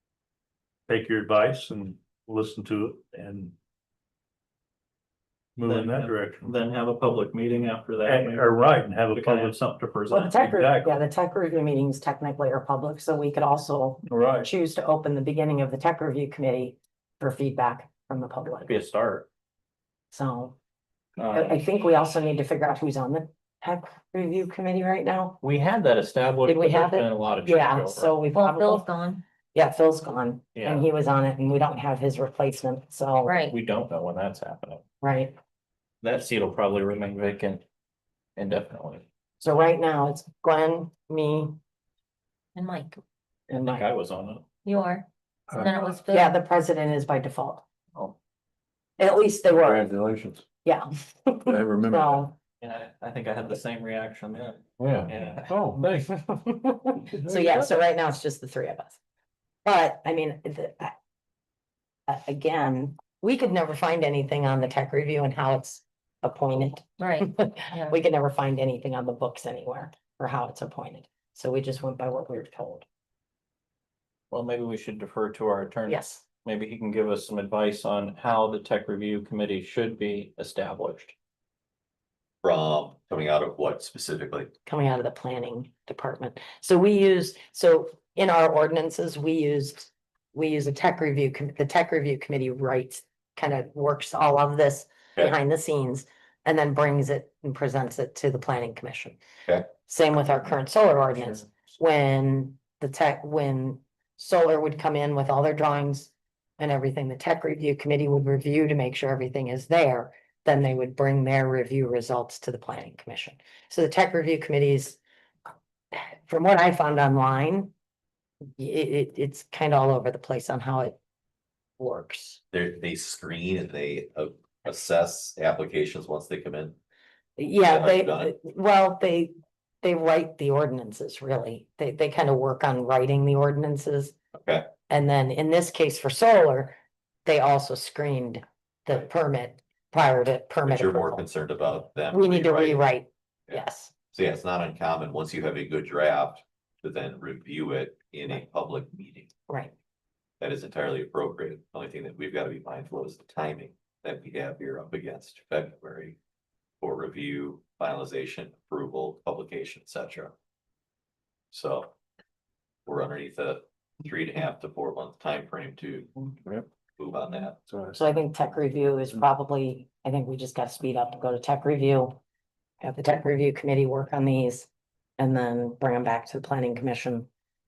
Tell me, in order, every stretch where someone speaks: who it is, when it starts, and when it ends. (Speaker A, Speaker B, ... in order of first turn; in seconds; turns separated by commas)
Speaker A: 0.9-3.5, Speaker A: 5.6-6.6, Speaker B: 5.7-8.6, Speaker A: 8.0-11.0, Speaker B: 9.1-10.4, Speaker C: 10.1-18.7, Speaker A: 14.1-14.5, Speaker B: 18.6-19.3, Speaker C: 20.1-20.6, Speaker B: 21.2-21.6, Speaker C: 21.3-25.4, Speaker B: 25.4-28.2, Speaker C: 26.4-28.9, Speaker D: 28.3-29.2, Speaker C: 29.5-33.4, Speaker B: 30.6-30.9, Speaker D: 33.2-33.6, Speaker B: 33.5-34.8, Speaker C: 35.0-35.4, Speaker B: 36.0-37.6, Speaker B: 38.4-39.0, Speaker C: 39.4-41.6, Speaker D: 42.5-43.0, Speaker C: 43.5-43.9, Speaker B: 43.5-44.5, Speaker D: 44.6-46.4, Speaker E: 45.5-45.8, Speaker C: 46.1-47.6, Speaker C: 49.0-49.9, Speaker E: 49.5-50.4, Speaker C: 50.6-52.4, Speaker E: 51.5-52.3, Speaker B: 52.6-55.5, Speaker E: 54.8-56.1, Speaker C: 55.8-59.0, Speaker E: 57.1-57.6, Speaker C: 59.6-61.0, Speaker C: 62.1-72.9, Speaker D: 67.0-68.0, Speaker B: 74.3-81.1, Speaker C: 75.9-76.2, Speaker F: 82.4-84.5, Speaker C: 84.7-99.2, Speaker C: 99.8-115.0, Speaker C: 115.9-117.7, Speaker C: 118.6-121.0, Speaker C: 121.8-122.4, Speaker F: 122.5-126.8, Speaker C: 127.4-134.2, Speaker F: 127.6-128.3, Speaker F: 134.4-134.7, Speaker C: 134.9-141.2, Speaker F: 140.7-142.9, Speaker C: 142.1-143.9, Speaker F: 144.1-149.3, Speaker F: 150.4-156.2, Speaker F: 156.8-160.3, Speaker F: 161.5-161.9, Speaker F: 162.9-166.1, Speaker F: 167.0-167.6, Speaker E: 167.7-168.0, Speaker C: 167.9-172.2, Speaker C: 172.8-177.3